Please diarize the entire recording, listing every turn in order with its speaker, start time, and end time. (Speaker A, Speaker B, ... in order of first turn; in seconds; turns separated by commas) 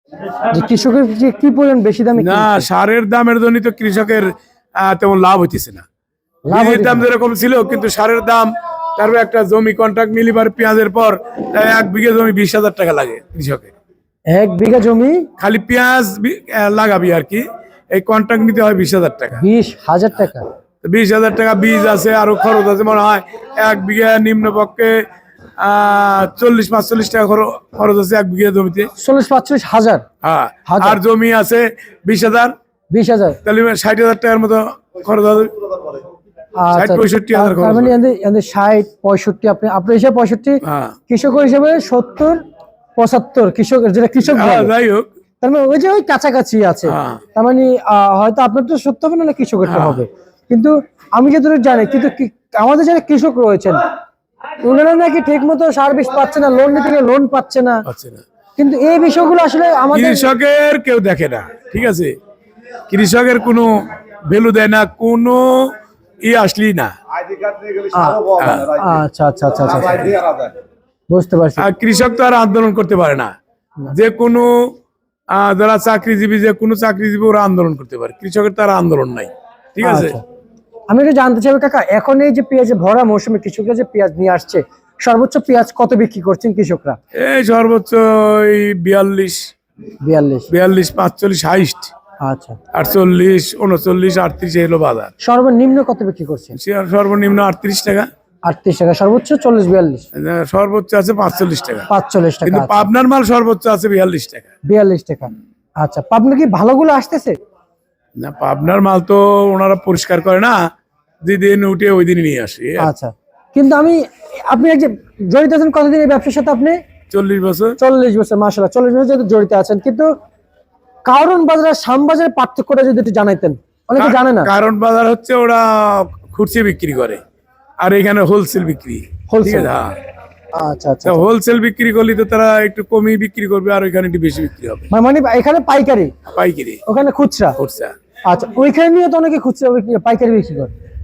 Speaker A: 0.5-2.7, Speaker B: 2.2-5.8, Speaker A: 6.5-7.1, Speaker B: 6.5-13.7, Speaker A: 14.3-15.3, Speaker B: 15.4-19.4, Speaker A: 19.4-20.5, Speaker B: 20.8-25.1, Speaker B: 25.6-28.9, Speaker A: 29.0-30.0, Speaker B: 30.2-32.5, Speaker A: 30.7-31.0, Speaker A: 32.9-33.4, Speaker B: 33.5-35.5, Speaker A: 36.6-42.4, Speaker B: 36.7-37.9, Speaker B: 40.6-41.0, Speaker A: 43.0-44.7, Speaker B: 44.2-45.1, Speaker A: 45.4-53.8, Speaker B: 46.9-47.2, Speaker B: 49.6-50.0, Speaker A: 54.6-57.9, Speaker B: 57.9-58.2, Speaker A: 58.6-60.3, Speaker B: 59.9-62.1, Speaker B: 62.9-66.9, Speaker A: 67.9-70.3, Speaker B: 68.4-68.8, Speaker A: 71.1-71.7, Speaker B: 71.6-73.3, Speaker B: 73.9-74.7, Speaker B: 75.3-80.2, Speaker A: 79.8-80.2, Speaker A: 80.9-87.0, Speaker B: 87.2-89.4, Speaker A: 90.0-90.5, Speaker B: 90.5-91.9, Speaker A: 92.2-92.6, Speaker B: 92.7-95.1, Speaker A: 95.2-96.6, Speaker B: 96.6-98.1, Speaker A: 98.5-100.1, Speaker B: 100.2-101.9, Speaker A: 101.9-102.9, Speaker B: 102.5-104.5, Speaker A: 104.7-107.3, Speaker B: 108.2-110.6, Speaker B: 111.2-112.9, Speaker A: 112.8-116.8, Speaker B: 117.1-117.8, Speaker A: 117.8-120.1, Speaker A: 121.1-124.5, Speaker B: 124.0-127.2, Speaker B: 127.8-130.0, Speaker A: 129.3-129.7, Speaker A: 130.6-131.3, Speaker B: 131.1-134.9, Speaker A: 134.9-136.1, Speaker B: 136.3-136.8, Speaker A: 136.9-137.6, Speaker B: 137.6-137.9, Speaker A: 138.3-140.7